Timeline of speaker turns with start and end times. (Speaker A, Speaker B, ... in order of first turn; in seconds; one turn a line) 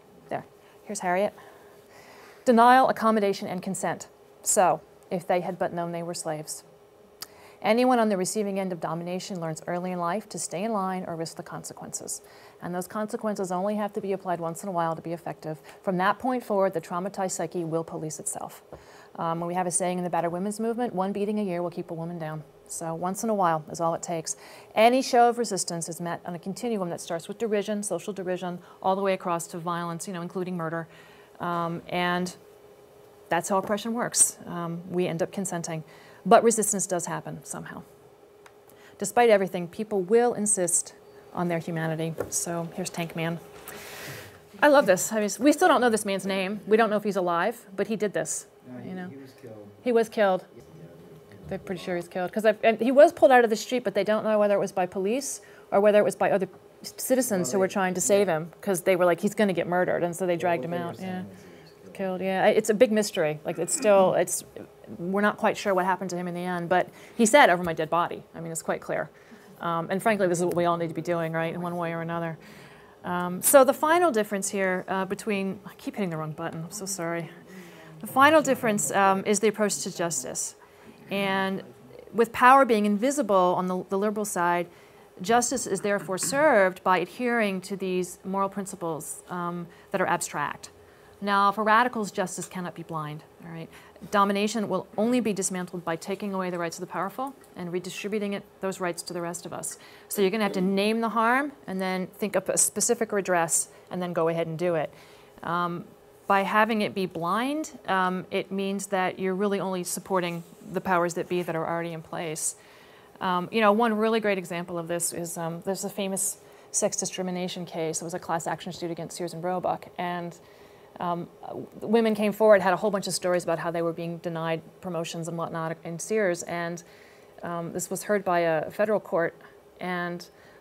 Speaker A: 0.3-1.4
Speaker A: 2.5-6.6
Speaker A: 7.6-18.6
Speaker A: 19.1-32.4
Speaker A: 33.3-37.8
Speaker A: 39.0-43.4
Speaker A: 44.6-49.1
Speaker B: 48.6-49.8
Speaker A: 49.8-50.5
Speaker B: 50.6-52.0
Speaker A: 51.5-61.3
Speaker B: 57.3-58.3
Speaker B: 60.4-62.1
Speaker A: 61.9-72.4
Speaker B: 70.7-72.2
Speaker A: 73.0-77.4
Speaker A: 78.0-80.6
Speaker A: 81.1-112.6
Speaker A: 113.2-120.4
Speaker A: 121.0-126.8
Speaker A: 127.4-130.3